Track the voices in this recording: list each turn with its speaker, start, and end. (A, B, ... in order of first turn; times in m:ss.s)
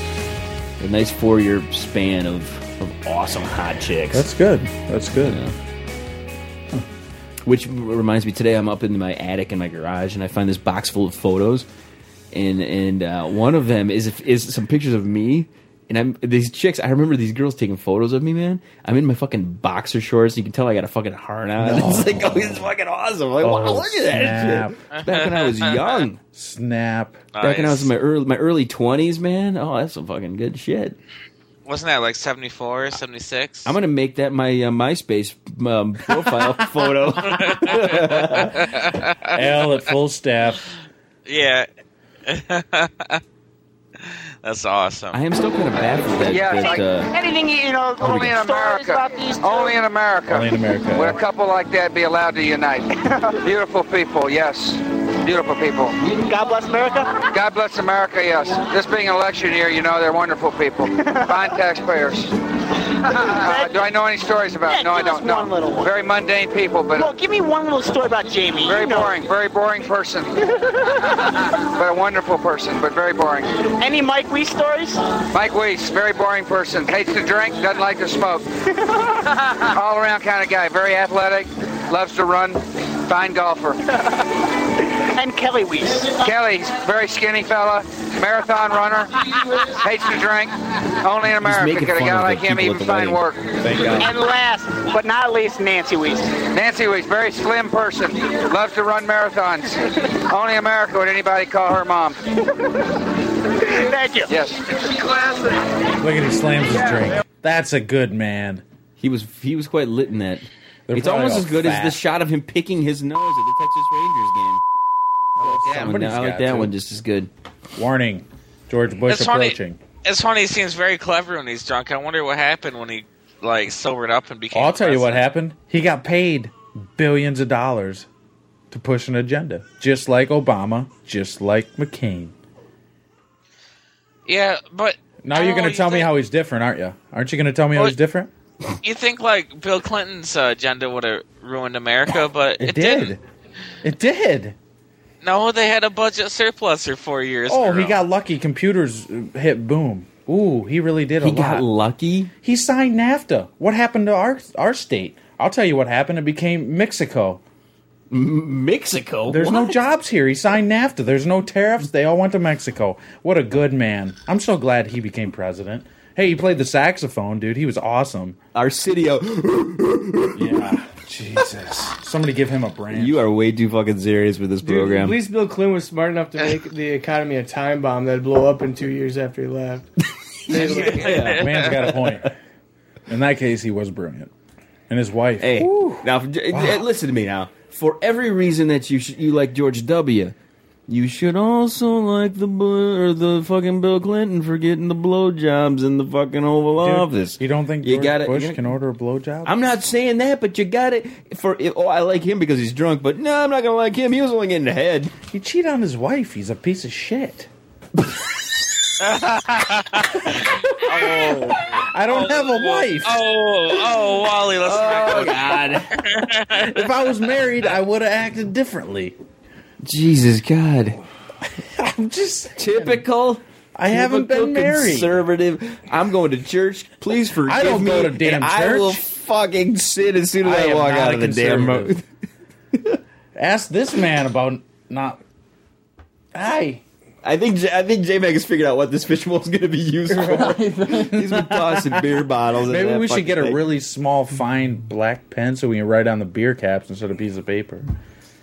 0:00.8-0:04.3 A
0:04.1-0:05.4 B
0:05.1-0:05.5 A
0:07.4-0:11.7 A
0:12.3-0:26.2 A
0:21.6-0:22.7 B
0:23.4-0:24.8 B
0:24.9-0:26.0 C
0:26.3-0:27.3 B
0:27.3-0:27.9 C
0:27.4-0:31.0 A
0:31.7-0:33.8 C
0:33.6-0:38.6 A
0:36.1-0:38.7 B
0:37.2-0:39.7 C
0:39.3-0:40.7 B
0:41.3-0:41.7 C
0:42.3-0:43.2 C
0:44.0-0:45.2 C
0:45.1-0:47.1 A
0:46.3-0:46.8 D
0:46.6-0:49.8 E
0:48.0-0:56.0 D
0:50.3-0:51.2 B
0:53.1-0:53.4 E
0:56.0-0:57.2 E
0:57.3-1:02.4 D
1:01.0-1:01.6 E
1:03.0-1:07.1 D
1:03.0-1:03.8 E
1:04.7-1:05.9 E
1:07.0-1:09.2 E
1:08.6-1:13.6 D
1:13.7-1:15.1 E
1:15.3-1:18.5 D
1:19.6-1:23.8 D
1:25.1-1:26.2 E
1:26.1-1:33.8 D
1:31.4-1:34.1 A
1:33.6-1:34.1 B
1:34.0-1:36.4 E
1:36.5-1:42.2 D
1:43.6-1:44.3 E
1:44.3-1:44.9 D
1:46.0-1:48.6 B
1:49.0-1:54.6 A
1:50.9-1:52.0 B
1:55.4-1:56.7 B
1:55.5-1:57.3 A
1:57.8-1:59.8 B
1:59.1-2:05.2 C
2:04.5-2:08.1 B
2:08.7-2:12.3 B
2:14.3-2:16.1 C
2:15.2-2:18.3 B
2:18.8-2:23.2 C
2:22.6-2:23.2 B
2:23.8-2:24.6 B
2:25.2-2:28.0 C
2:27.5-2:31.7 B
2:31.2-2:32.3 A
2:32.4-2:37.4 B
2:38.1-2:39.8 A
2:39.3-2:48.4 B
2:48.6-2:50.6 A
2:50.4-2:53.2 B
2:52.9-2:55.2 A
2:54.6-2:59.9 F
3:00.5-3:02.2 A
3:00.5-3:01.2 F
3:00.5-3:01.7 C
3:00.7-3:02.4 B
3:03.1-3:04.3 B
3:04.9-3:06.8 B
3:05.4-3:10.4 A
3:10.9-3:18.6 A
3:16.8-3:19.6 B
3:19.4-3:25.1 A
3:25.3-3:27.5 B
3:29.0-3:36.9 C
3:31.3-3:31.5 A
3:31.8-3:33.2 B
3:34.6-3:35.9 A
3:36.5-3:39.2 B
3:39.8-3:41.0 A
3:41.6-3:43.0 B
3:42.6-3:52.0 A
3:43.8-3:45.2 B
3:47.4-3:49.0 B
3:50.4-3:52.0 B
3:53.4-3:55.2 B
3:56.3-3:56.8 B
3:57.2-4:03.6 A
4:00.1-4:07.9 B